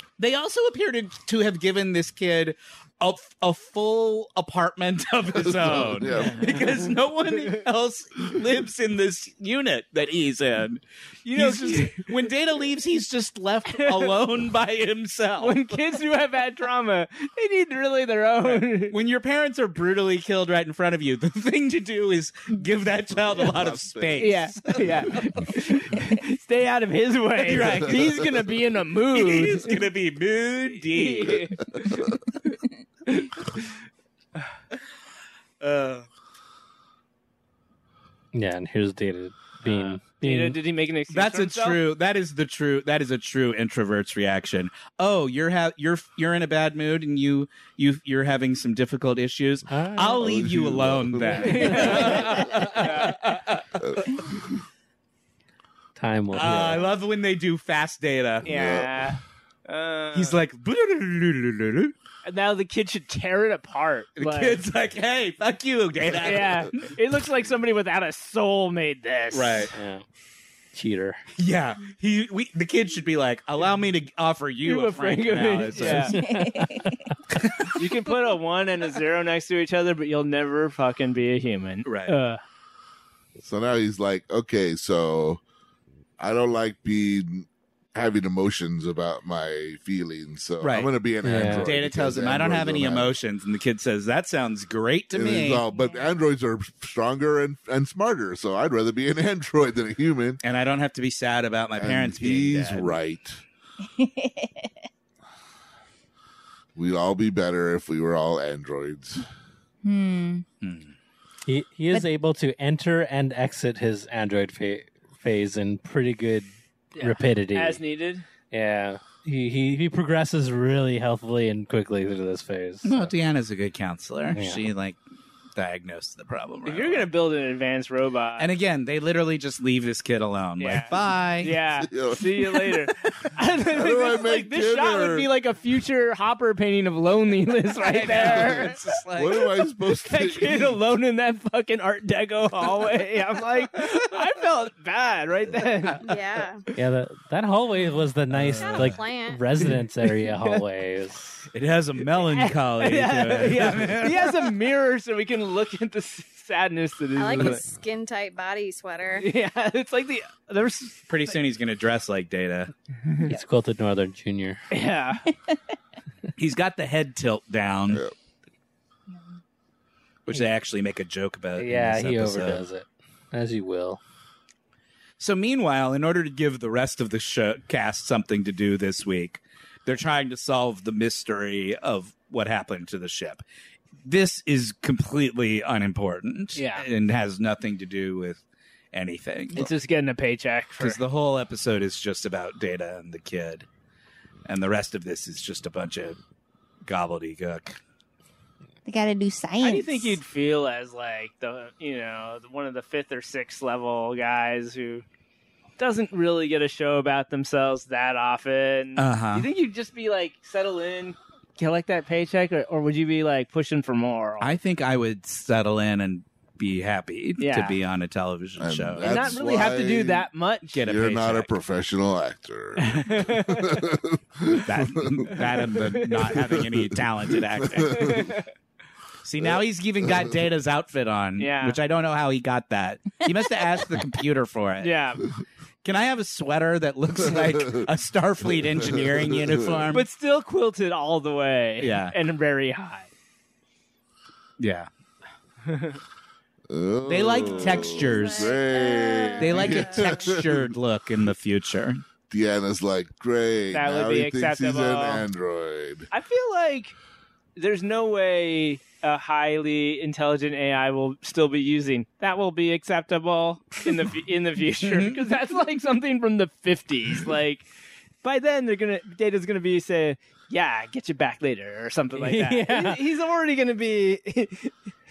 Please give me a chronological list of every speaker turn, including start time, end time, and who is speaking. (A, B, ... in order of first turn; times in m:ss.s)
0:00.2-0:15.8 A
0:05.3-0:06.4 B
0:06.1-0:06.7 C
0:11.2-0:12.1 C
0:13.7-0:14.2 C
0:15.4-0:19.0 C
0:18.4-0:25.0 A
0:23.1-0:24.4 B
0:24.2-0:29.9 C
0:27.4-0:28.2 A
0:29.1-0:31.5 A
0:30.8-0:33.7 C
0:35.6-0:36.1 A
0:38.3-0:40.6 D
0:39.7-0:41.8 C
0:41.1-0:54.2 A
0:49.7-0:50.4 D
0:50.2-0:51.8 B
0:51.4-0:53.2 C
0:53.8-0:54.4 B
0:56.0-0:56.9 D
0:56.3-0:58.5 A
0:58.4-1:00.4 C
0:58.4-0:58.9 B
1:00.1-1:02.0 A
1:02.2-1:04.6 C
1:04.2-1:06.9 A
1:06.2-1:09.7 C
1:09.3-1:09.7 A
1:09.7-1:10.0 D
1:10.7-1:11.2 D
1:11.4-1:16.2 A
1:14.6-1:16.4 C
1:15.8-1:16.9 D
1:16.2-1:17.1 E
1:17.3-1:17.7 A
1:17.8-1:22.4 C
1:21.8-1:22.2 A
1:23.4-1:25.4 B
1:26.2-1:33.1 B
1:30.6-1:30.9 A
1:31.2-1:31.7 D
1:31.5-1:35.6 A
1:35.1-1:40.4 B
1:35.7-1:36.0 E
1:40.4-1:43.0 A
1:41.8-1:43.4 B
1:43.9-1:44.7 E
1:46.8-1:49.2 B
1:49.8-1:50.4 E
1:50.6-1:50.9 A
1:51.5-1:58.0 D
1:57.0-1:58.3 C
1:58.5-2:03.1 D
2:02.8-2:05.0 A
2:04.3-2:04.6 D
2:05.6-2:07.1 A
2:06.6-2:08.5 C
2:08.4-2:11.6 A
2:10.6-2:18.8 C
2:11.9-2:12.9 B
2:13.7-2:15.3 B
2:17.8-2:19.4 A
2:18.2-2:20.8 B
2:20.0-2:26.7 C
2:26.0-2:26.6 F
2:26.8-2:31.4 D
2:28.5-2:29.4 F
2:28.6-2:29.0 C
2:29.6-2:30.6 C
2:31.5-2:34.4 A
2:32.1-2:37.6 C
2:37.2-2:39.3 F
2:39.2-2:41.4 C
2:41.1-2:42.7 A
2:43.2-2:44.6 D
2:44.7-2:45.3 C
2:46.4-2:48.0 A
2:50.3-2:52.6 A
2:51.6-2:54.0 D
2:55.2-3:03.4 A
3:04.0-3:08.4 A
3:06.6-3:06.9 C
3:08.9-3:09.7 A
3:09.6-3:11.0 C
3:10.8-3:13.7 A
3:14.5-3:16.2 A
3:16.8-3:17.8 A
3:18.8-3:20.2 E
3:19.6-3:25.0 C
3:25.8-3:34.5 C
3:29.0-3:29.5 A
3:34.4-3:39.4 A
3:37.4-3:37.8 C
3:38.6-3:40.3 B
3:39.0-3:40.8 C
3:40.7-3:41.5 A
3:40.8-3:45.4 B
3:42.8-3:43.9 C
3:44.7-3:48.1 A
3:46.4-3:47.4 B
3:47.9-3:48.2 B
3:47.9-3:48.5 C
3:49.2-3:55.0 A
3:51.4-3:51.8 C
3:54.8-3:55.3 C
3:55.8-4:00.1 A
3:57.2-3:57.9 B
3:58.4-3:59.9 B
3:59.9-4:03.1 C
4:01.8-4:02.2 A
4:04.6-4:04.9 A
4:05.7-4:06.0 C
4:06.7-4:10.7 B
4:07.1-4:08.6 A
4:07.8-4:10.1 F
4:09.4-4:12.0 A
4:12.3-4:16.1 B
4:13.7-4:15.3 C
4:16.1-4:16.9 C
4:17.6-4:27.7 C
4:24.8-4:25.2 A
4:28.2-4:34.8 C
4:32.1-4:33.0 D